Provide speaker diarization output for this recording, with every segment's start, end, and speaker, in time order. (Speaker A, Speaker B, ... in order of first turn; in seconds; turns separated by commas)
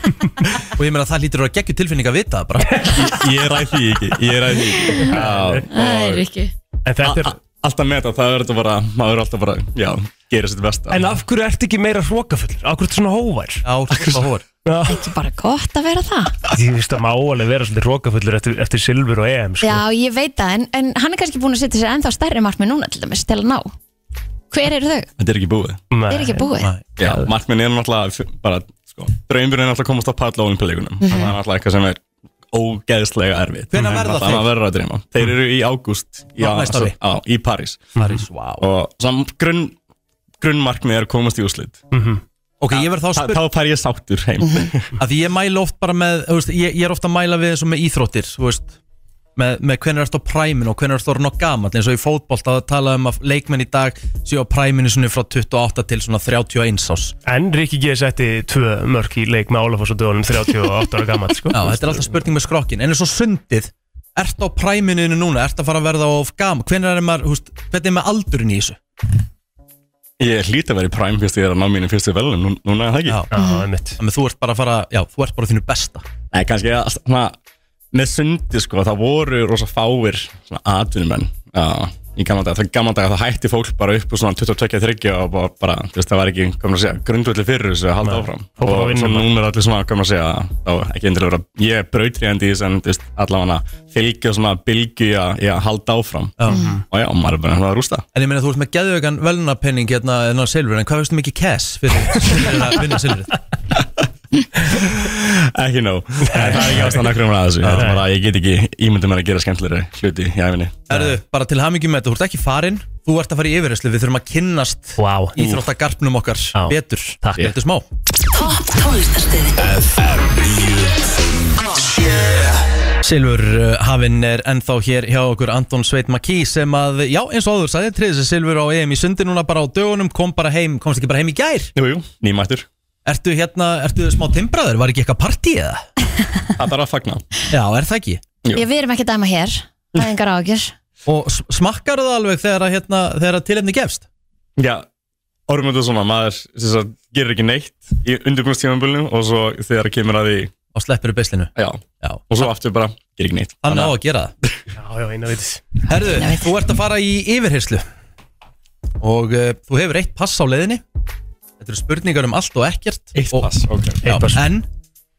Speaker A: 0.7-3.0, Speaker B: 2.7-3.2, Speaker C: 2.9-6.2, Speaker D: 4.8-5.1, Speaker B: 5.0-5.6, Speaker D: 5.7-6.5, Speaker B: 6.8-7.4, Speaker C: 7.0-11.1, Speaker B: 10.9-13.6, Speaker A: 13.6-14.4, Speaker C: 13.9-14.2, Speaker B: 14.6-15.1, Speaker D: 14.8-16.4, Speaker B: 16.5-19.8, Speaker D: 19.6-23.7, Speaker D: 24.5-25.1, Speaker C: 25.2-25.8, Speaker B: 25.9-26.5, Speaker D: 26.1-26.7, Speaker C: 27.0-37.9, Speaker B: 27.0-27.3, Speaker D: 31.0-31.3, Speaker A: 33.7-34.5, Speaker A: 36.4-37.0, Speaker B: 38.0-38.2, Speaker A: 38.0-38.6, Speaker C: 38.6-39.7, Speaker C: 40.4-41.8, Speaker B: 41.9-42.2, Speaker A: 42.6-43.4, Speaker C: 42.7-44.9, Speaker A: 45.0-48.8, Speaker A: 49.4-57.1, Speaker B: 57.2-62.0, Speaker A: 61.5-68.8, Speaker C: 70.2-73.2, Speaker B: 73.3-74.0, Speaker D: 73.3-73.7, Speaker A: 74.0-76.0, Speaker C: 76.3-77.3, Speaker C: 77.9-98.0, Speaker B: 88.0-89.3, Speaker A: 96.4-96.6, Speaker B: 96.5-96.8, Speaker A: 98.1-103.4, Speaker C: 104.6-110.9, Speaker B: 106.2-107.0, Speaker A: 107.6-107.9, Speaker B: 107.7-108.0, Speaker A: 110.9-117.8, Speaker B: 115.0-115.4, Speaker B: 116.5-117.5, Speaker E: 118.3-122.9, Speaker A: 123.0-131.7, Speaker C: 131.7-132.7, Speaker A: 133.0-135.8, Speaker C: 136.6-137.2, Speaker A: 137.5-138.2, Speaker D: 138.5-140.7, Speaker A: 141.1-144.1, Speaker C: 144.6-144.8, Speaker C: 145.5-150.5, Speaker A: 150.7-152.4, Speaker C: 151.5-153.9, Speaker A: 153.6-154.3, Speaker B: 154.8-155.8, Speaker A: 155.9-157.8, Speaker D: 156.1-156.5, Speaker A: 159.0-160.8, Speaker A: 161.6-164.7, Speaker C: 163.1-164.0, Speaker B: 164.0-164.5